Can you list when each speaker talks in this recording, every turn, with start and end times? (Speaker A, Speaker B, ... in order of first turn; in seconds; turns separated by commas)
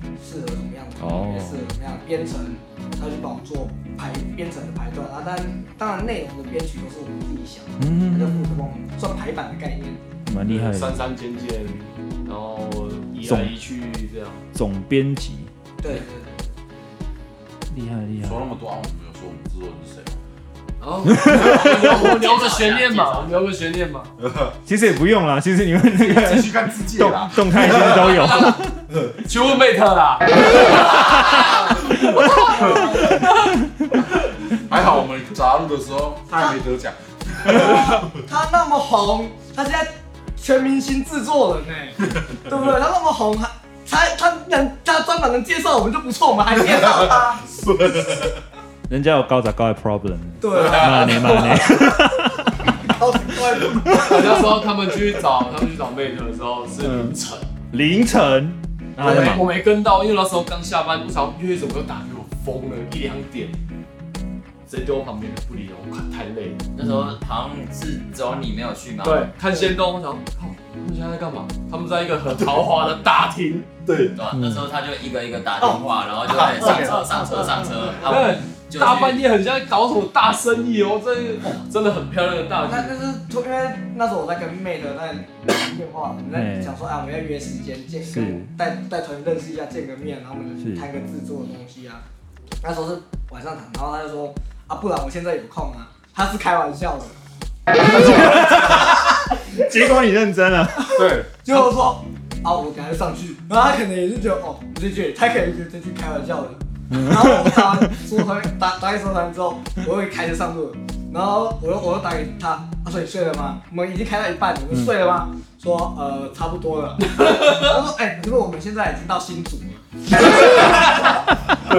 Speaker A: 0.2-10.0, Speaker B: 1.0-1.7, Speaker B: 7.8-8.8, Speaker B: 10.3-11.1, Speaker C: 10.4-14.4, Speaker B: 13.2-13.5, Speaker B: 14.5-15.5, Speaker A: 15.8-16.5, Speaker B: 17.7-18.5, Speaker D: 18.2-20.2, Speaker C: 20.8-24.1, Speaker B: 21.1-21.7, Speaker E: 21.7-23.4, Speaker D: 24.2-24.6, Speaker B: 24.7-28.8, Speaker D: 25.9-28.4, Speaker C: 27.8-28.6, Speaker C: 29.2-33.5, Speaker D: 34.5-38.0, Speaker A: 37.5-47.5, Speaker D: 46.9-48.3, Speaker B: 48.9-52.8, Speaker A: 50.4-52.0, Speaker C: 50.6-51.1, Speaker A: 52.8-54.4, Speaker B: 54.0-54.3, Speaker C: 54.0-57.5, Speaker B: 56.8-57.2, Speaker B: 57.7-59.5, Speaker C: 59.0-63.6, Speaker C: 64.7-66.6, Speaker E: 66.8-69.3, Speaker B: 66.8-67.2, Speaker C: 69.0-73.7, Speaker D: 72.3-72.7, Speaker D: 73.8-74.2, Speaker E: 74.1-79.3, Speaker B: 74.3-74.7, Speaker A: 75.6-78.0, Speaker D: 76.3-77.1, Speaker C: 78.0-82.9, Speaker A: 82.6-92.0, Speaker B: 86.3-86.8, Speaker B: 88.1-88.5, Speaker B: 90.6-90.9, Speaker A: 92.6-97.2, Speaker B: 97.8-101.7, Speaker D: 97.9-98.6, Speaker D: 100.9-101.3, Speaker A: 101.4-119.8, Speaker B: 106.9-108.0, Speaker C: 117.2-117.7, Speaker C: 120.5-120.8